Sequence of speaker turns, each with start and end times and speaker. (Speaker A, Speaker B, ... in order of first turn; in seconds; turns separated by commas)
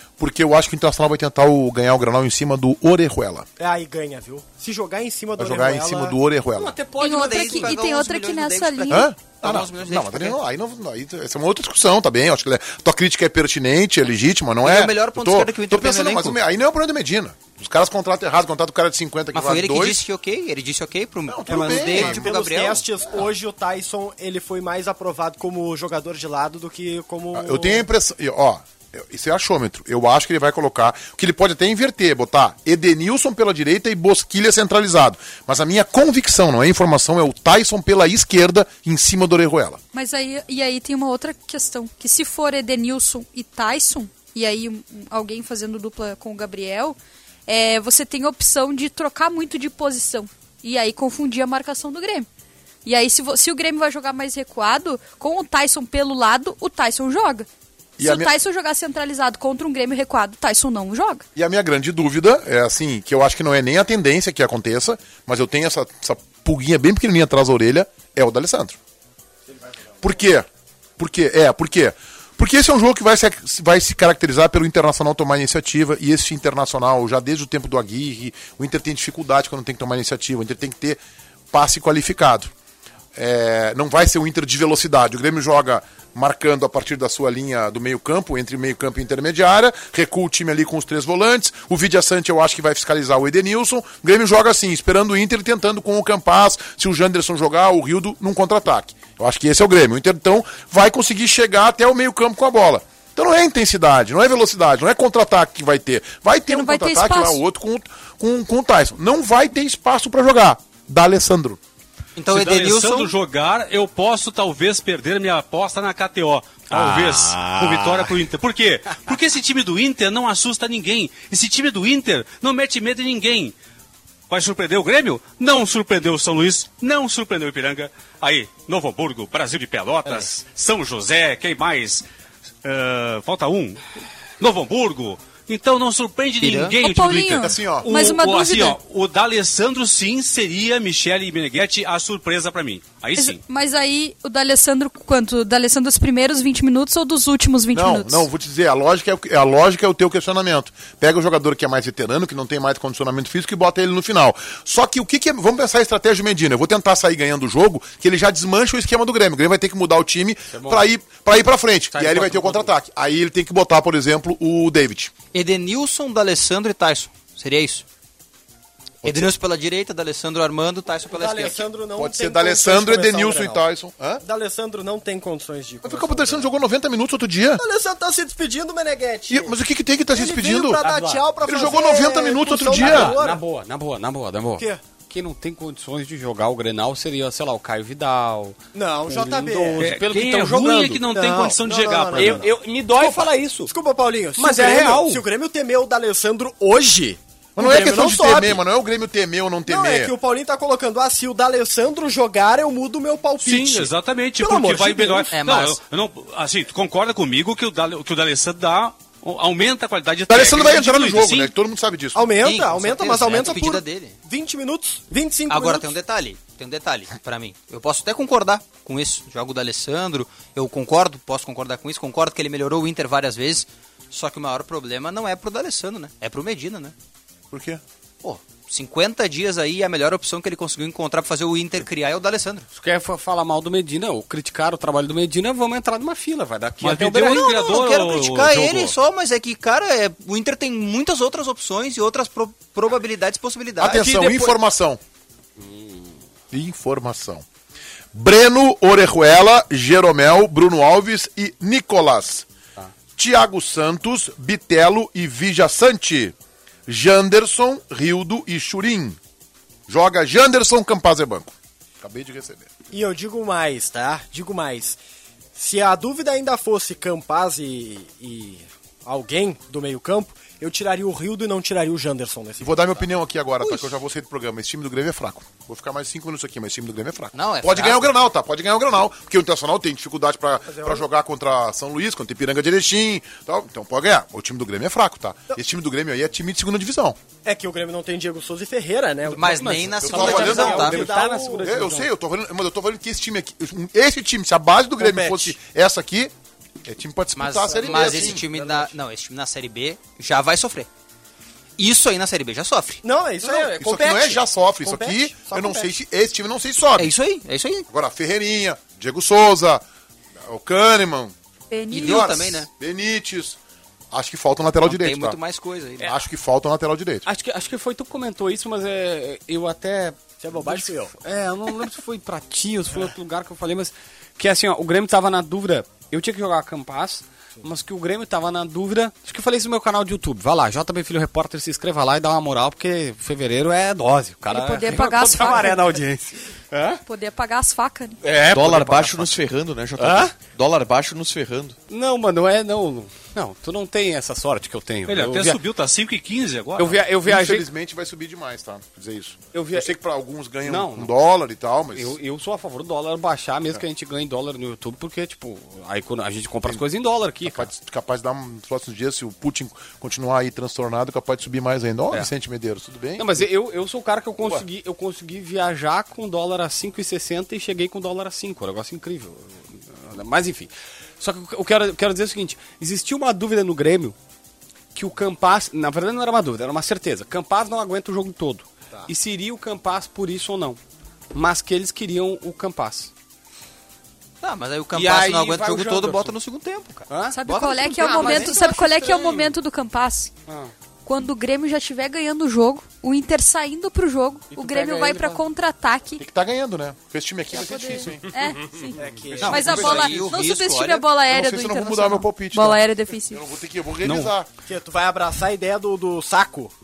Speaker A: 0.2-3.5, Speaker B: 3.6-6.2, Speaker A: 5.4-6.8, Speaker C: 6.5-7.7, Speaker D: 7.0-9.1, Speaker E: 7.0-10.4, Speaker A: 8.9-20.0, Speaker E: 14.6-16.4, Speaker E: 19.3-22.8, Speaker A: 21.3-22.3, Speaker B: 21.5-27.9, Speaker A: 27.3-39.8, Speaker D: 39.9-52.3, Speaker D: 52.9-57.5, Speaker A: 58.0-58.3, Speaker D: 58.0-61.2, Speaker A: 61.4-68.8, Speaker B: 69.5-70.1, Speaker A: 70.0-70.5, Speaker A: 71.0-81.0, Speaker A: 81.5-82.5, Speaker A: 83.2-111.6, Speaker D: 106.5-107.4, Speaker E: 112.2-113.2, Speaker F: 112.3-123.5, Speaker C: 116.7-118.2, Speaker F: 124.3-132.0, Speaker F: 132.6-133.8, Speaker F: 134.4-143.4, Speaker E: 136.4-136.8, Speaker D: 136.8-138.8, Speaker A: 137.3-137.9, Speaker D: 143.2-148.3, Speaker A: 147.7-165.1, Speaker C: 160.5-160.8, Speaker C: 161.9-162.7, Speaker E: 165.3-167.8, Speaker A: 169.0-169.3, Speaker E: 169.0-171.7, Speaker B: 171.1-173.6, Speaker A: 172.0-174.2, Speaker B: 174.2-176.5, Speaker A: 175.8-177.6, Speaker B: 177.6-179.6, Speaker A: 179.3-180.8, Speaker B: 180.1-183.4, Speaker C: 180.8-181.3, Speaker A: 181.4-183.2, Speaker C: 182.7-191.0, Speaker B: 188.7-189.9, Speaker F: 189.8-192.5, Speaker B: 191.1-198.6, Speaker C: 192.1-193.7, Speaker C: 194.4-195.2, Speaker A: 197.6-200.1, Speaker B: 199.7-205.3, Speaker F: 203.4-211.5, Speaker E: 205.3-205.8, Speaker A: 210.3-212.3, Speaker B: 212.2-215.9, Speaker E: 212.4-214.2, Speaker E: 215.5-226.9, Speaker A: 227.5-227.8, Speaker E: 228.2-232.7, Speaker C: 232.7-237.5, Speaker F: 236.8-238.9, Speaker E: 237.3-244.4, Speaker A: 243.8-245.0, Speaker C: 244.2-244.5, Speaker C: 245.6-246.2, Speaker A: 246.5-247.4, Speaker A: 248.1-252.4, Speaker A: 253.2-256.3, Speaker A: 256.9-259.2, Speaker A: 259.9-262.7, Speaker B: 262.9-265.0, Speaker B: 265.5-273.0, Speaker A: 272.6-287.2, Speaker E: 277.3-278.1, Speaker B: 280.7-281.0, Speaker B: 287.4-291.8, Speaker C: 289.3-292.1, Speaker E: 289.3-291.0, Speaker A: 290.0-296.3, Speaker B: 295.0-295.5, Speaker A: 296.8-298.4, Speaker E: 297.4-300.9, Speaker B: 297.7-298.9, Speaker E: 301.8-303.0, Speaker B: 303.0-305.9, Speaker A: 303.4-307.1, Speaker E: 307.0-307.9, Speaker A: 307.9-309.8, Speaker A: 310.4-311.3, Speaker D: 311.7-312.3, Speaker E: 311.9-312.7, Speaker A: 311.9-313.6, Speaker A: 314.1-315.4, Speaker E: 314.8-316.2, Speaker A: 316.0-317.2, Speaker C: 317.2-337.0, Speaker B: 320.4-321.1, Speaker D: 334.5-335.9, Speaker D: 337.0-338.2, Speaker C: 338.2-339.4, Speaker G: 338.5-341.8, Speaker C: 340.0-340.3, Speaker C: 341.9-345.6, Speaker F: 345.1-347.0, Speaker C: 346.8-347.7, Speaker A: 347.2-352.2, Speaker C: 349.5-349.9, Speaker C: 350.6-351.1, Speaker C: 351.9-357.7, Speaker A: 357.4-363.5, Speaker C: 363.2-374.2, Speaker A: 364.4-364.6, Speaker C: 374.9-380.8, Speaker C: 381.3-383.1, Speaker E: 384.4-388.5, Speaker C: 384.9-386.3, Speaker C: 387.1-389.5, Speaker D: 387.3-390.3, Speaker C: 390.5-390.7, Speaker D: 391.0-396.2, Speaker C: 394.5-395.4, Speaker A: 396.2-398.2, Speaker D: 397.5-403.5, Speaker C: 398.3-398.9, Speaker B: 399.0-400.1, Speaker E: 399.4-401.1, Speaker A: 399.5-400.1, Speaker A: 401.3-404.5, Speaker F: 404.0-404.3, Speaker B: 404.7-406.7